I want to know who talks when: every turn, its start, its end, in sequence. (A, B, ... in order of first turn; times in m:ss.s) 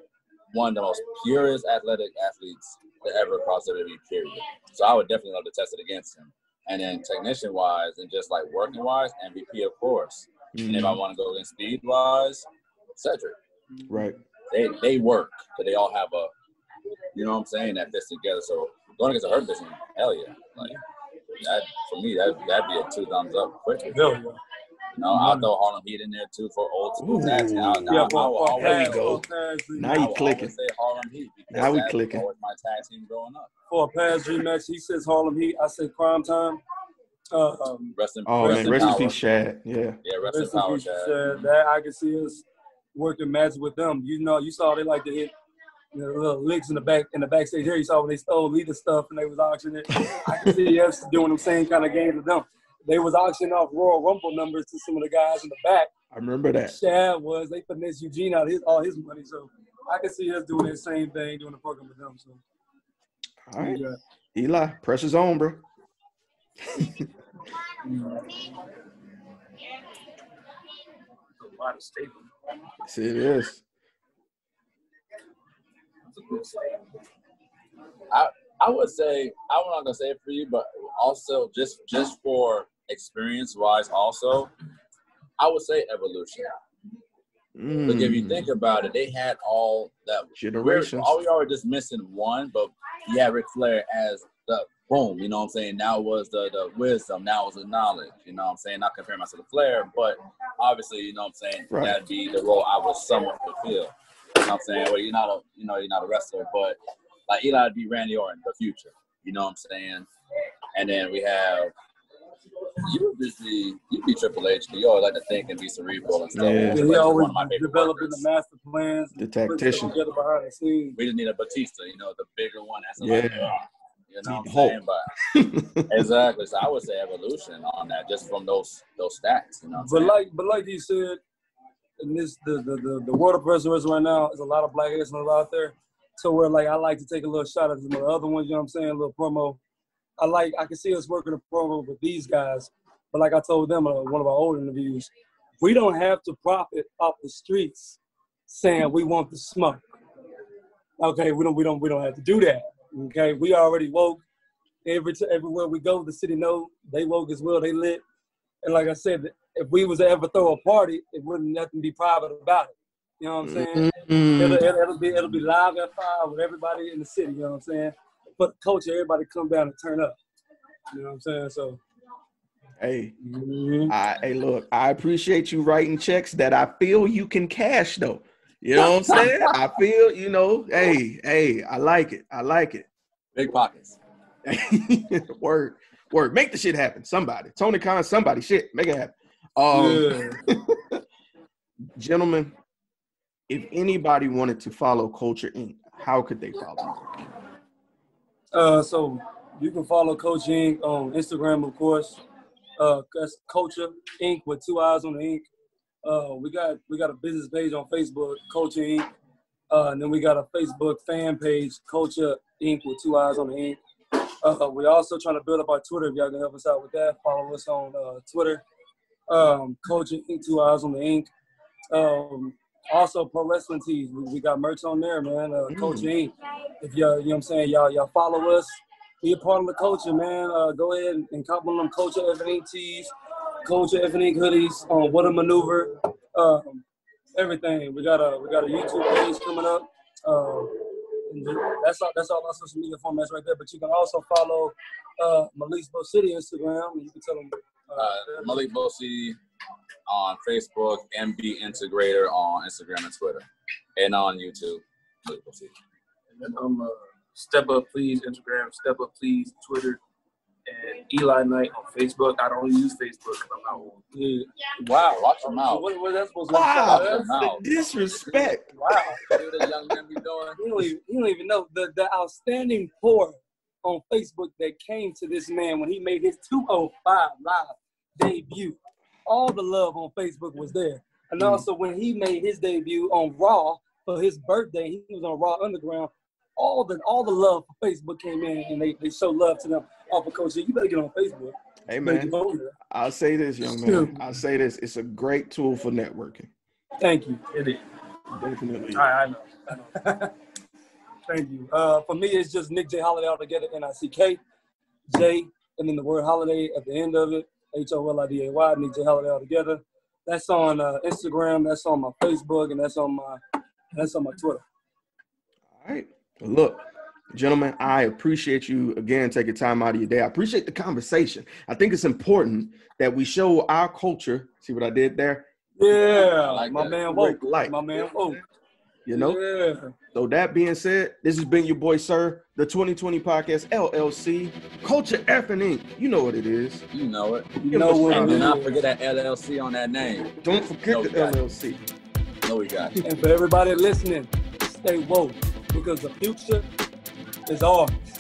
0:00.5-0:13.4 A
0:10.6-0:11.0 B
0:13.9-0:14.2 B
0:14.5-0:16.3 A
0:17.1-0:20.8 A
0:21.4-0:24.0 A
0:23.9-0:24.4 C
0:25.0-0:29.2 A
0:25.1-0:25.5 C
0:27.0-0:29.2 B
0:27.9-0:30.0 C
0:29.8-0:30.5 B
0:29.9-0:33.5 A
0:31.5-0:32.2 B
0:33.7-0:36.6 C
0:37.3-0:39.1 C
0:38.0-0:39.2 A
0:38.3-0:40.0 B
0:40.0-0:41.3 A
0:40.3-0:45.3 C
0:45.9-0:55.9 C
0:50.0-0:50.4 B
0:56.1-0:56.8 B
0:56.7-1:02.4 C
1:03.5-1:03.8 B
1:03.6-1:04.0 C
1:04.4-1:05.6 B
1:06.6-1:07.1 B
1:07.9-1:08.2 D
1:11.4-1:12.3 D
1:12.8-1:13.6 B
1:16.1-1:16.8 D
1:18.1-1:24.5 A
1:25.4-1:26.5 A
1:27.6-1:28.5 B
1:27.9-1:46.8 A
1:30.4-1:31.2 B
1:41.7-1:42.0 B
1:47.3-1:50.1 A
1:50.8-1:51.7 A
1:52.8-1:58.2 A
1:56.4-1:56.9 B
1:56.7-2:01.0 C
1:59.2-2:00.0 B
2:01.0-2:05.0 A
2:03.0-2:03.5 B
2:04.2-2:06.0 B
2:05.9-2:10.2 A
2:09.7-2:11.2 C
2:12.0-2:19.6 C
2:20.2-2:25.1 C
2:25.6-2:29.8 C
2:31.0-2:34.2 C
2:34.8-2:38.0 C
2:38.6-2:50.2 C
2:43.4-2:44.6 B
2:50.9-2:51.8 C
2:52.8-2:53.1 B
2:53.2-2:53.9 C
2:53.9-3:02.9 B
3:03.4-3:04.0 A
3:04.4-3:11.0 B
3:09.7-3:10.4 C
3:12.0-3:12.5 B
3:13.5-3:17.0 B
3:18.5-3:22.2 C
3:22.8-3:25.5 C
3:26.0-3:29.1 C
3:29.7-3:33.8 C
3:34.4-3:38.6 C
3:39.3-3:41.3 C
3:41.9-3:53.1 C
3:45.7-3:46.1 B
3:53.6-4:08.6 C
4:08.0-4:09.4 A
4:10.1-4:13.4 A
4:14.0-4:15.8 A
4:16.4-4:20.0 D
4:20.7-4:24.0 D
4:24.1-4:24.5 C
4:24.8-4:25.9 A
4:25.6-4:27.3 C
4:26.5-4:28.7 B
4:26.8-4:28.6 A
4:28.7-4:29.2 C
4:29.2-4:30.6 A
4:30.6-4:52.7 C
4:41.4-4:41.7 B
4:51.9-4:52.4 B
4:52.9-4:56.5 B
4:53.8-4:54.2 C
4:57.0-4:57.4 C
4:57.5-4:57.8 D
4:58.4-4:59.1 B
4:59.0-4:59.9 D
4:59.8-5:00.3 C
5:01.3-5:04.4 C
5:05.1-5:13.4 C
5:13.9-5:14.6 C
5:15.7-5:25.5 B
5:25.8-5:28.4 C
5:26.0-5:27.0 A
5:27.1-5:27.8 B
5:29.1-5:29.4 B
5:29.1-5:29.9 C
5:30.1-5:36.8 B
5:36.9-5:37.5 A
5:37.6-5:38.7 C
5:37.7-5:38.6 B
5:38.1-5:41.4 A
5:40.4-5:41.8 B
5:42.4-5:43.0 A
5:43.0-5:46.7 C
5:47.5-5:48.0 C